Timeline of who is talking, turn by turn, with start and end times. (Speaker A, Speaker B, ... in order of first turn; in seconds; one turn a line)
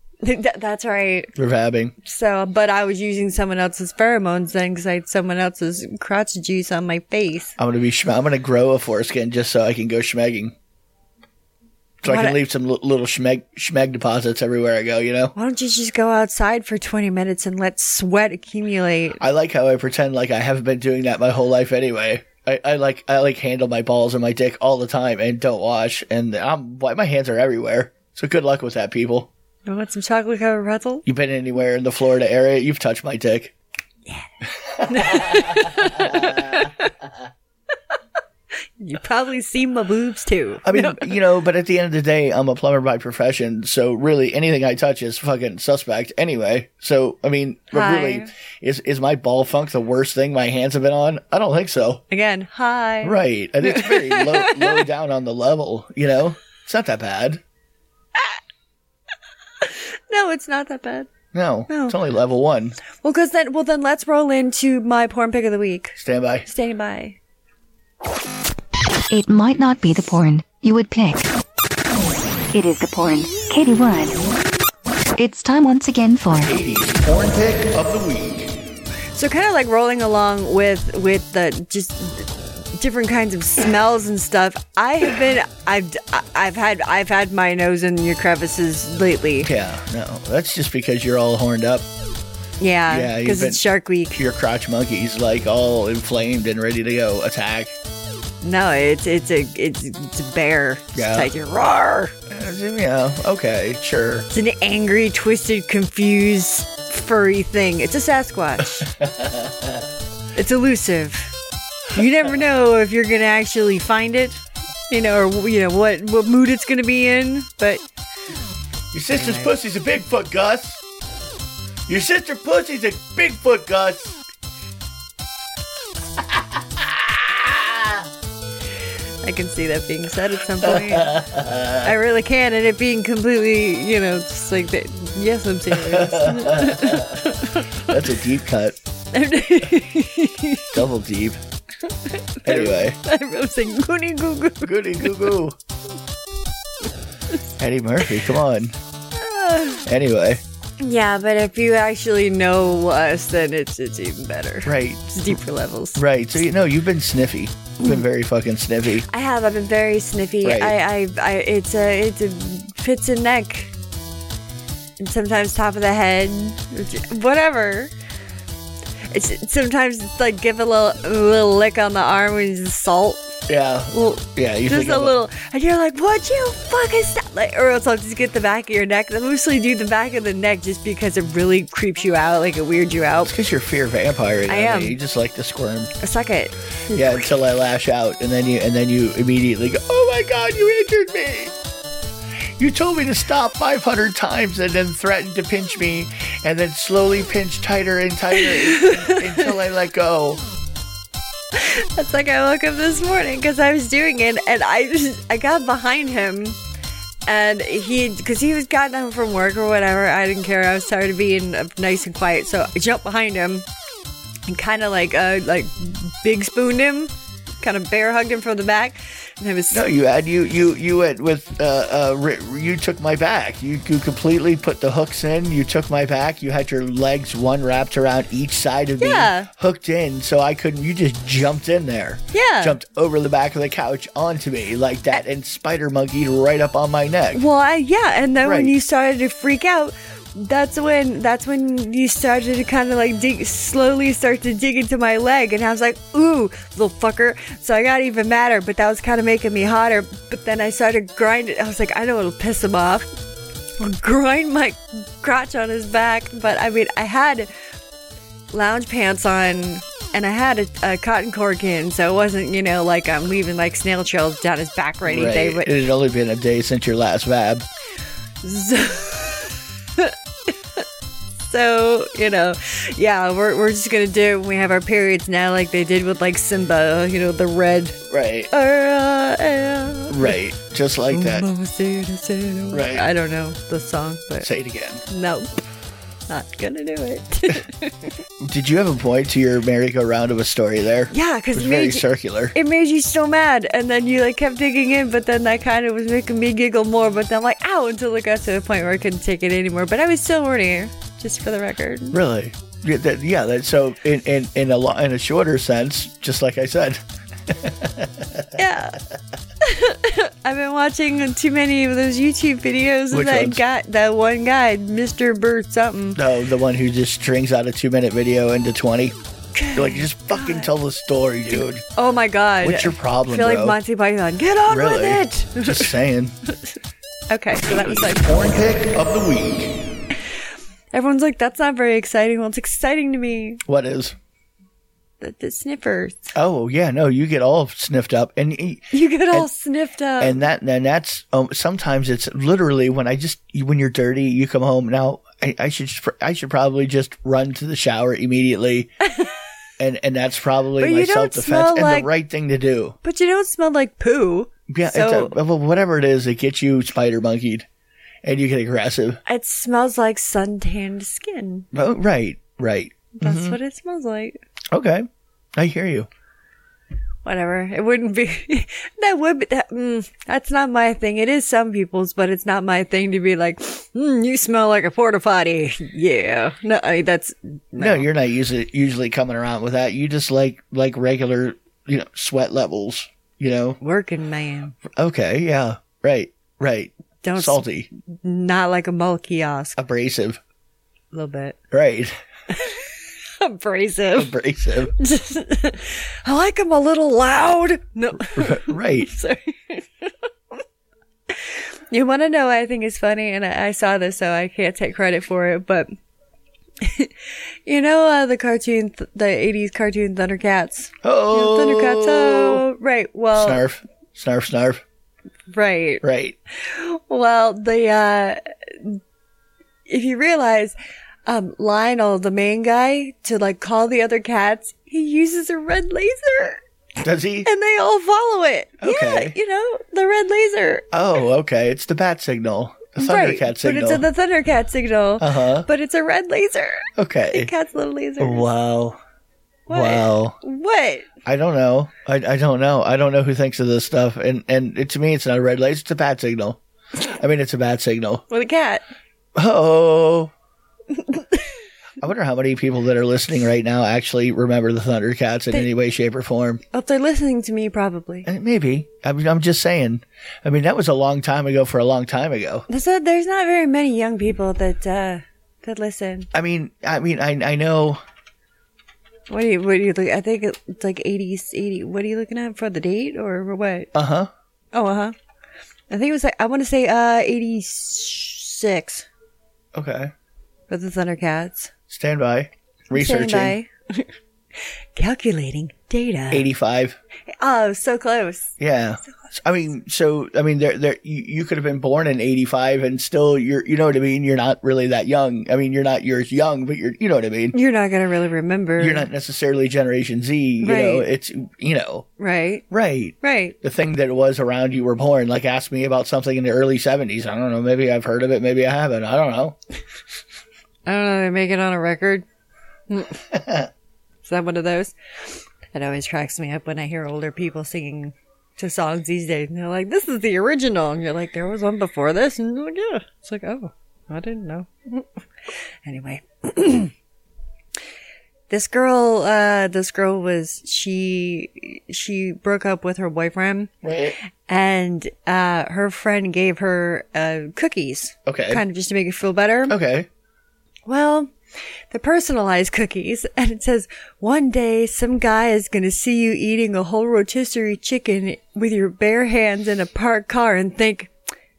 Speaker A: 0.2-1.3
Speaker B: 1.4-1.9
Speaker A: 2.0-7.5
Speaker B: 7.6-10.5
Speaker B: 12.0-15.3
Speaker A: 12.0-12.4
Speaker A: 15.3-19.2
Speaker B: 19.2-29.3
Speaker A: 29.6-31.0
Speaker B: 31.0-33.5
Speaker B: 34.6-36.7
Speaker A: 34.9-36.9
Speaker A: 38.8-41.2
Speaker B: 40.6-52.0
Speaker A: 47.7-48.3
Speaker A: 52.1-54.9
Speaker B: 53.0-57.4
Speaker A: 59.6-61.1
Speaker B: 61.3-62.8
Speaker A: 61.7-62.0
Speaker A: 63.0-67.2
Speaker B: 66.0-66.5
Speaker C: 69.1-71.3
Speaker C: 72.5-74.2
Speaker C: 75.2-76.5
Speaker B: 76.3-78.5
Speaker A: 79.1-89.5
Speaker B: 89.4-91.8
Speaker A: 92.6-94.2
Speaker B: 92.9-93.6
Speaker B: 94.2-97.7
Speaker A: 98.4-102.1
Speaker B: 100.9-101.3
Speaker B: 102.3-104.3
Speaker A: 104.3-108.9
Speaker B: 108.8-109.8
Speaker A: 110.3-111.3
Speaker A: 111.9-117.8
Speaker B: 118.9-120.8
Speaker A: 119.2-119.5
Speaker B: 121.9-124.1
Speaker B: 126.4-128.0
Speaker A: 129.2-131.2
Speaker B: 130.6-131.9
Speaker A: 131.8-138.0
Speaker B: 135.7-137.2
Speaker B: 137.8-138.8
Speaker A: 139.1-140.8
Speaker B: 140.7-141.4
Speaker A: 141.9-145.4
Speaker B: 142.4-143.0
Speaker B: 144.6-145.6
Speaker B: 147.6-148.8
Speaker A: 149.2-149.8
Speaker B: 149.8-150.4
Speaker A: 150.8-156.0
Speaker B: 154.7-155.0
Speaker B: 155.9-159.1
Speaker A: 159.1-163.7
Speaker B: 160.4-160.8
Speaker A: 165.0-167.9
Speaker A: 169.1-173.4
Speaker B: 173.5-175.1
Speaker A: 173.9-183.3
Speaker B: 183.2-185.9
Speaker A: 184.5-185.0
Speaker A: 186.0-187.3
Speaker B: 186.9-191.5
Speaker B: 192.6-200.4
Speaker A: 198.3-199.5
Speaker A: 201.5-206.6
Speaker A: 207.2-213.7
Speaker A: 214.5-219.8
Speaker B: 219.7-237.4
Speaker A: 229.0-229.5
Speaker A: 232.3-232.8
Speaker A: 237.3-253.1
Speaker B: 238.4-238.7
Speaker A: 253.8-257.5
Speaker A: 258.5-265.7
Speaker B: 265.0-267.7
Speaker A: 268.4-270.8
Speaker A: 271.5-280.4
Speaker B: 278.1-278.5
Speaker B: 280.1-281.4
Speaker A: 281.1-284.5
Speaker B: 282.7-283.1
Speaker B: 284.4-285.0
Speaker A: 285.1-285.6
Speaker A: 286.3-288.1
Speaker B: 288.4-292.5
Speaker A: 291.1-302.2
Speaker B: 302.1-308.6
Speaker A: 308.5-309.0
Speaker A: 309.6-316.2
Speaker B: 313.1-313.6
Speaker B: 316.1-319.1
Speaker A: 319.5-320.7
Speaker B: 319.7-321.8
Speaker A: 321.9-325.9
Speaker B: 322.6-323.8
Speaker B: 324.7-326.3
Speaker A: 327.3-328.4
Speaker B: 327.6-329.8
Speaker A: 330.9-333.6
Speaker B: 333.6-334.1
Speaker A: 335.2-336.3
Speaker B: 336.3-339.5
Speaker A: 338.9-340.4
Speaker B: 340.2-348.9
Speaker A: 349.0-349.3
Speaker B: 349.8-352.9
Speaker A: 350.8-352.1
Speaker A: 353.0-355.4
Speaker B: 354.7-357.6
Speaker B: 358.2-359.2
Speaker A: 359.2-361.7
Speaker B: 361.7-363.6
Speaker A: 363.1-364.4
Speaker B: 364.7-366.1
Speaker A: 367.2-378.1
Speaker B: 377.8-383.8
Speaker A: 383.8-384.8
Speaker B: 384.9-387.9
Speaker A: 387.2-389.8
Speaker B: 389.8-390.4
Speaker A: 391.1-391.6
Speaker B: 391.7-392.1
Speaker A: 392.5-394.3
Speaker B: 394.1-394.9
Speaker A: 395.0-400.6
Speaker B: 398.2-399.1
Speaker A: 401.3-405.9
Speaker A: 406.8-413.6
Speaker B: 411.0-412.6
Speaker B: 413.4-414.8
Speaker A: 415.5-416.0
Speaker B: 416.0-416.4
Speaker A: 416.6-419.0
Speaker A: 419.9-426.6
Speaker B: 427.0-427.5
Speaker A: 427.4-430.9
Speaker B: 428.8-429.3
Speaker B: 430.9-434.1
Speaker A: 433.0-438.5
Speaker B: 435.2-435.7
Speaker B: 437.0-437.5
Speaker B: 438.2-439.0
Speaker A: 439.7-441.1
Speaker B: 439.7-440.4
Speaker B: 441.2-448.2
Speaker A: 448.3-448.8
Speaker B: 449.4-450.3
Speaker A: 450.9-451.5
Speaker B: 452.0-456.6
Speaker A: 456.7-458.3
Speaker B: 458.2-462.6
Speaker A: 462.7-466.3
Speaker B: 466.3-468.0
Speaker A: 469.3-473.9
Speaker B: 473.9-474.3
Speaker A: 474.7-475.1
Speaker A: 475.9-479.1
Speaker B: 479.7-480.1
Speaker A: 480.7-481.7
Speaker B: 481.9-483.6
Speaker A: 482.9-484.1
Speaker A: 484.9-486.4
Speaker B: 486.3-487.0
Speaker A: 487.3-488.6
Speaker B: 488.6-497.5
Speaker A: 497.5-499.1
Speaker B: 498.8-502.1
Speaker A: 500.6-501.1
Speaker A: 502.2-502.6
Speaker B: 502.7-509.6
Speaker A: 503.2-503.6
Speaker A: 510.9-512.2
Speaker A: 512.9-513.2
Speaker B: 513.3-513.7
Speaker A: 514.2-526.9
Speaker A: 528.5-533.7
Speaker B: 533.8-534.2
Speaker A: 534.5-539.8
Speaker B: 538.2-538.6
Speaker B: 539.7-540.1
Speaker A: 540.9-541.3
Speaker A: 541.9-551.1